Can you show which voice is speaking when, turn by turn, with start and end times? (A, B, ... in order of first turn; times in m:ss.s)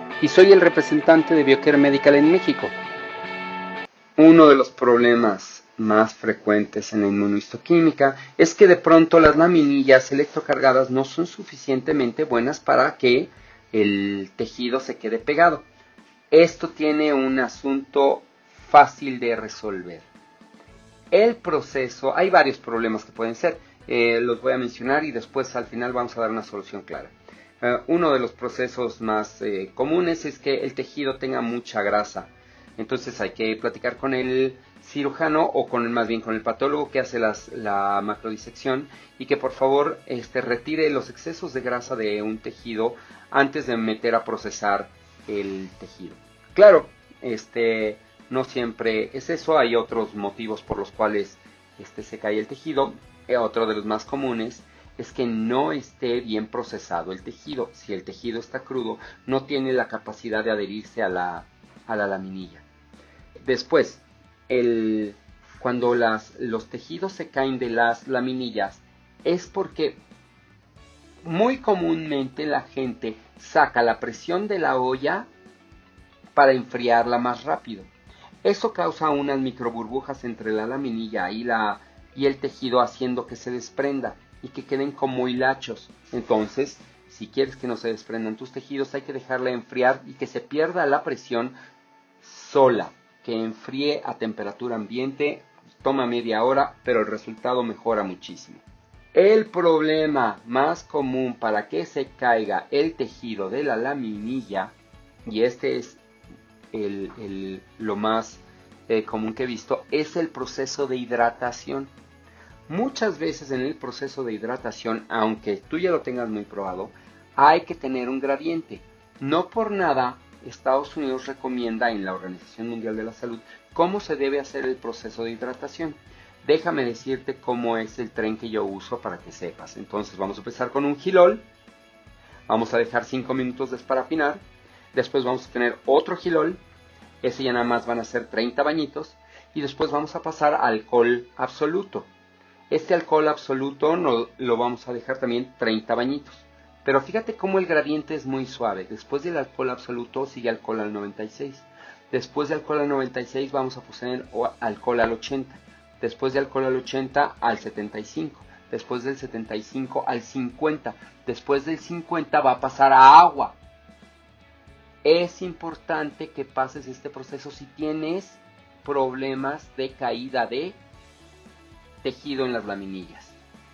0:00.2-0:02.7 A
0:04.2-0:15.6 A
0:16.3-0:20.0 A
0:21.1-1:02.6 A
1:03.4-1:10.0 A
1:11.2-1:15.3 A
1:16.4-1:17.9 A
1:18.4-1:31.5 A
1:32.2-1:38.6 A
1:39.1-1:44.7 A
1:45.2-1:46.0 A
1:46.7-1:51.9 A
1:52.7-2:11.4 A
2:12.5-2:14.4 A
2:14.9-2:16.6 A
2:17.2-2:22.1 A
2:22.7-2:43.6 A
2:45.0-2:50.8 A
2:52.0-2:53.4 A